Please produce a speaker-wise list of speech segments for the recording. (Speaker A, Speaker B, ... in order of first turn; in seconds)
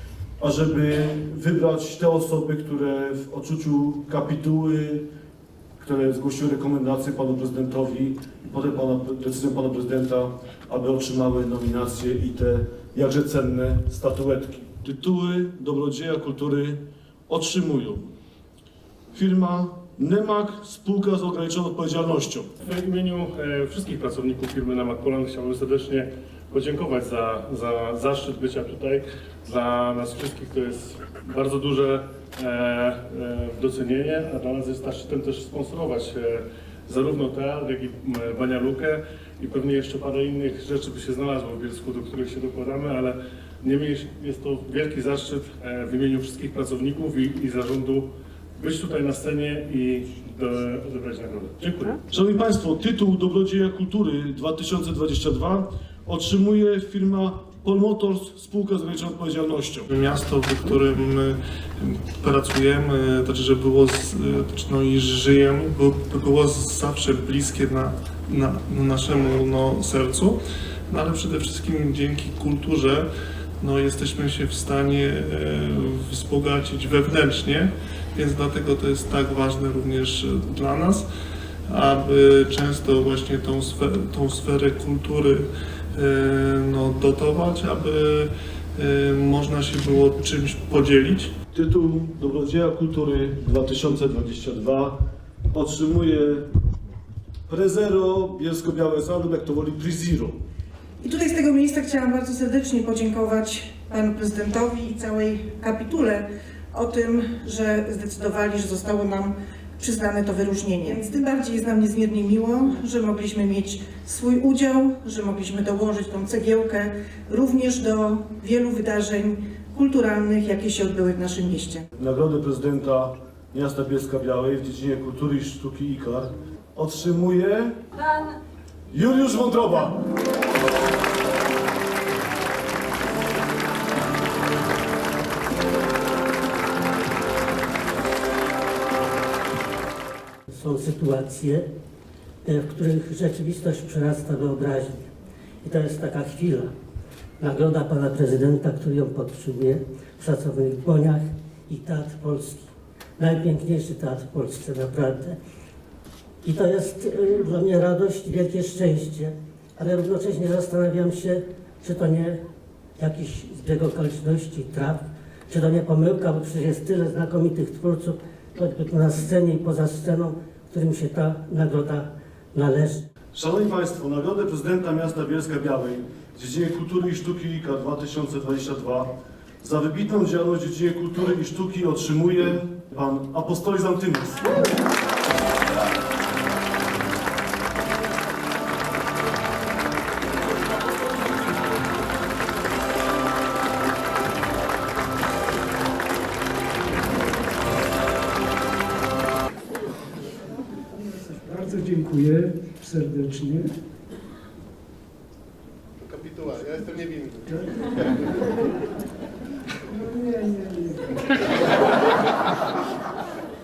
Speaker A: 0.4-5.1, 5.8-18.1, 19.1-22.5, 52.1-59.9, 91.5-95.0, 95.5-96.5, 97.5-100.4, 122.0-127.8, 128.9-130.0, 173.3-184.5
Speaker B: 22.6-52.0, 206.5-207.1
Speaker C: 59.9-73.1, 73.6-81.1, 81.7-91.3
Speaker D: 101.0-121.9
Speaker E: 140.5-141.7, 142.4-145.1, 145.6-146.7, 147.4-155.4, 156.4-162.4, 163.0-173.0
Speaker F: 201.4-203.7, 207.5-207.8, 210.1-211.0